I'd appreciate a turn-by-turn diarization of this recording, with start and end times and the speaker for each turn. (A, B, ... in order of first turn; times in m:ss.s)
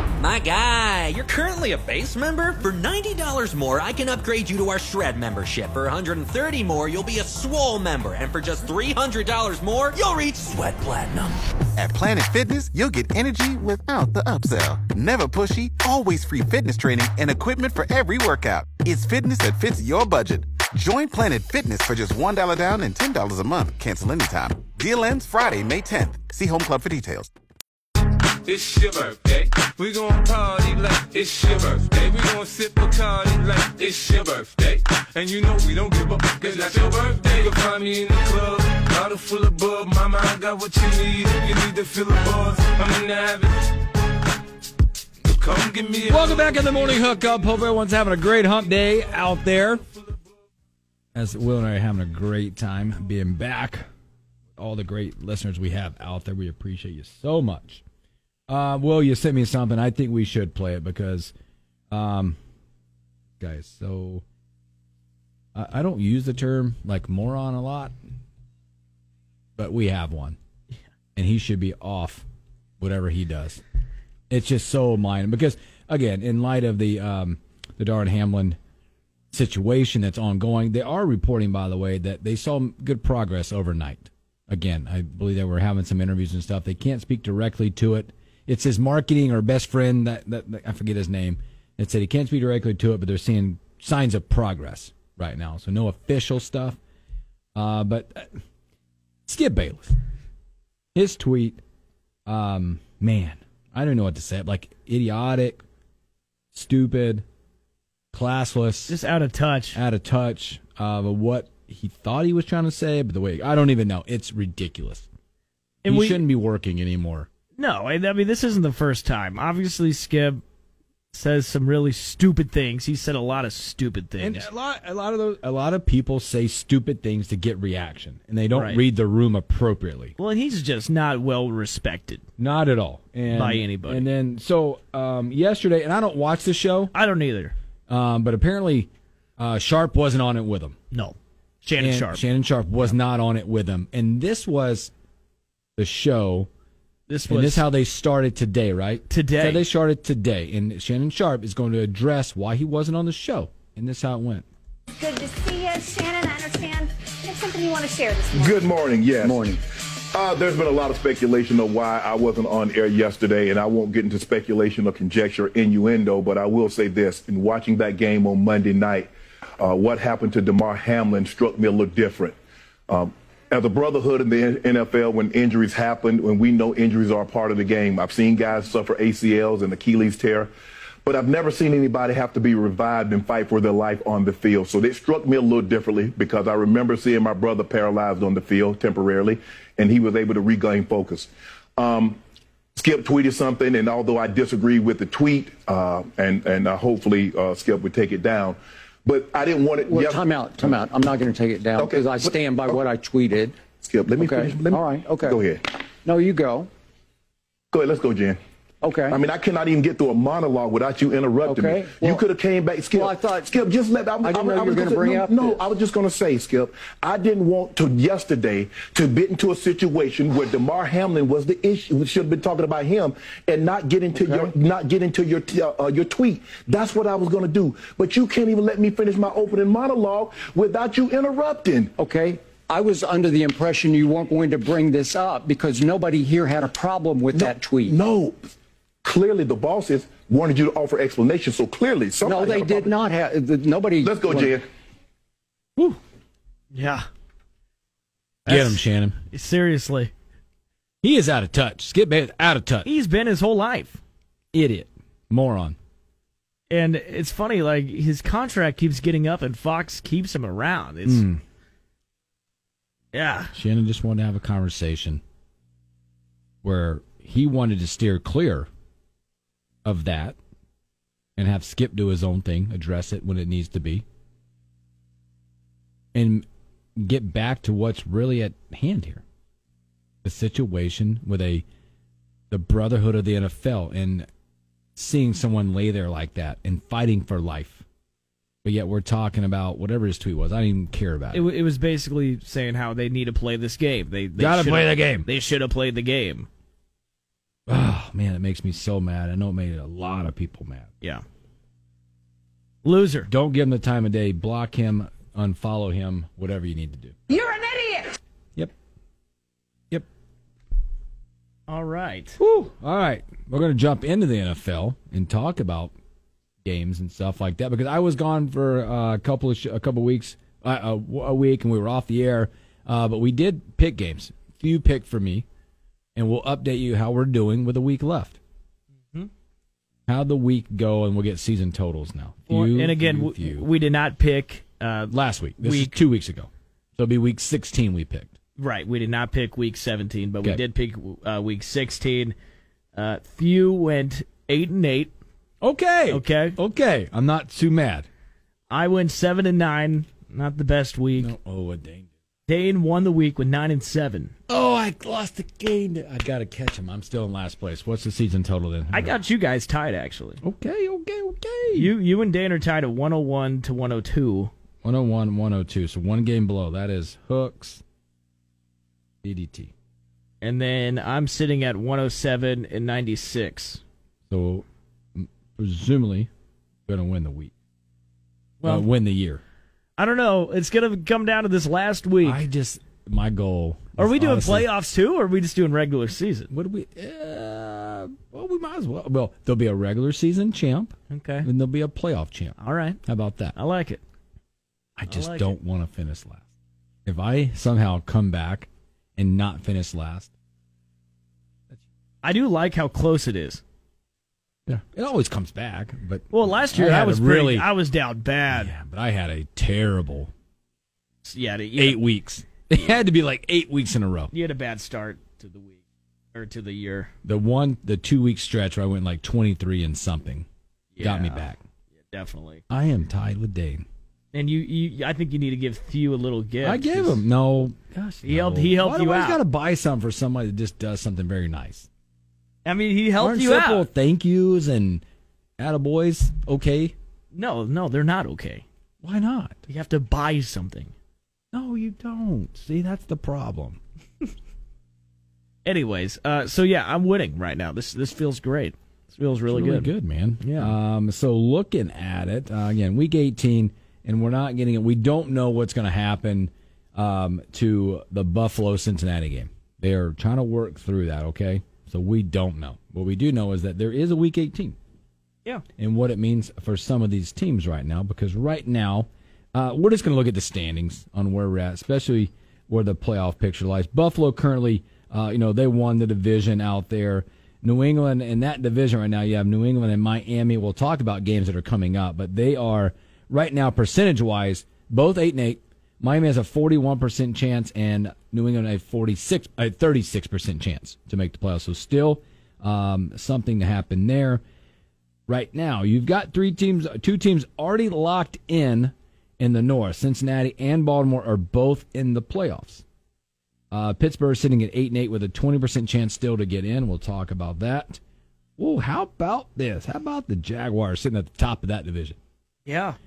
0:00.2-0:11.3 A
0:11.8-0:27.3 B
0:28.4-0:43.6 C
0:45.2-0:47.5 C
0:46.1-0:49.8 D
0:51.1-0:53.9 D
0:54.6-0:57.8 D
0:58.5-1:01.3 D
1:01.9-1:02.4 D
1:03.4-1:04.2 D
1:05.5-1:07.9 D
1:09.6-1:10.4 D
1:11.2-1:12.2 D
1:12.8-1:13.6 D
1:14.3-1:18.6 D
1:19.3-1:36.8 D
1:37.6-1:38.3 D
1:39.3-1:40.0 D
1:40.9-1:41.6 D
1:42.3-1:45.6 D
1:46.5-1:47.2 D
1:48.1-1:49.0 D
1:48.9-1:49.8 E
1:49.7-1:55.1 D
1:55.8-1:56.2 E
1:55.9-1:57.3 D
1:57.6-2:00.4 E
2:01.1-2:04.5 E
2:04.2-2:10.1 D
2:08.5-2:08.8 E
2:10.2-2:12.2 E
2:12.4-2:16.9 D
2:13.3-2:14.0 E
2:16.9-2:17.5 E
2:17.9-2:20.8 D
2:20.9-2:22.2 E
2:21.8-2:24.9 D
2:25.8-2:26.5 D
2:27.1-2:27.7 E
2:27.3-2:34.4 D
2:29.1-2:29.6 E
2:35.0-2:38.5 F
2:38.3-2:52.4 G
2:39.2-2:39.6 H
2:52.9-3:00.5 G
3:01.0-3:12.2 G
3:12.8-3:20.8 G
3:19.8-3:23.5 H
3:21.8-3:22.7 G
3:23.8-3:25.6 G
3:24.2-3:25.4 H
3:26.0-3:26.7 H
3:27.7-3:28.4 G
3:28.8-3:29.2 H
3:29.1-3:51.9 G
3:31.4-3:32.2 H
3:32.9-3:33.5 H
3:34.2-3:35.6 H
3:44.1-3:44.5 H
3:52.0-3:57.9 H
3:57.3-3:58.5 G
3:59.0-4:03.0 G
4:02.2-4:04.6 H
4:04.0-4:04.6 G
4:06.7-4:07.0 E
4:08.4-4:09.2 D
4:08.4-4:10.1 E
4:11.0-4:12.9 D
4:12.8-4:14.0 E
4:14.5-4:15.8 D
4:16.7-4:21.2 E
4:21.0-4:21.4 D
4:23.1-4:23.5 E
4:23.5-4:25.2 D
4:26.6-4:28.7 D
4:29.8-4:30.4 D
4:31.4-4:34.0 D
4:36.1-4:36.4 D
4:37.0-4:39.2 D
4:40.2-4:41.6 D
4:42.5-4:44.3 D
4:45.0-4:47.8 D
4:48.6-4:51.5 D
4:51.3-4:56.5 E
4:54.4-4:55.3 D
4:57.7-5:00.9 D
5:02.8-5:03.3 E
5:03.3-5:07.2 D
5:07.3-5:08.0 F
5:11.7-5:12.4 E
5:12.4-5:15.9 D
5:16.6-5:25.4 D
5:26.2-5:28.4 D
5:30.1-5:33.7 D
5:32.5-5:36.0 E
5:35.1-5:38.3 D
5:38.6-5:42.3 E
5:42.9-5:45.1 E
5:45.6-5:48.1 D
5:46.1-5:46.6 E
5:48.7-5:51.3 E
5:51.2-5:52.1 D
5:52.5-5:54.3 E
5:54.5-5:59.2 D
5:58.9-6:00.4 E
6:00.4-6:01.9 D
6:01.7-6:04.5 E
6:04.8-6:07.8 D
6:09.2-6:09.7 D
6:10.4-6:13.8 E
6:14.3-6:14.6 D
6:15.2-6:16.3 D
6:16.9-6:17.5 D
6:18.6-6:18.8 E
6:18.6-6:19.4 D
6:20.0-6:22.4 E
6:22.2-6:24.7 D
6:24.0-6:26.5 E
6:26.5-6:33.6 D
6:31.1-6:31.5 E
6:32.6-6:33.0 E
6:33.5-6:34.0 E
6:35.0-6:36.5 D
6:35.1-6:35.6 E
6:37.0-6:40.3 D
6:42.2-6:43.6 E
6:44.7-6:47.7 D
6:46.3-6:48.7 E
6:48.5-6:50.3 D
6:51.2-6:52.0 E
6:51.8-6:54.3 D
6:54.3-6:57.1 E
6:57.2-7:00.4 D
7:00.9-7:01.5 E
7:01.0-7:01.6 D
7:02.1-7:02.6 E
7:02.7-7:03.8 D
7:04.3-7:07.2 E
7:06.6-7:11.9 D
7:08.2-7:09.4 E
7:12.6-7:13.9 E
7:13.2-7:15.0 D
7:15.6-7:16.9 D
7:17.3-7:18.6 E
7:19.0-7:19.6 D
7:19.7-7:20.9 E
7:21.5-7:23.8 D
7:25.6-7:30.7 E
7:29.5-7:44.8 D
7:45.8-8:14.4 D
8:15.3-8:22.8 D
8:23.7-8:28.0 D
8:28.6-8:32.2 D
8:32.6-8:33.0 E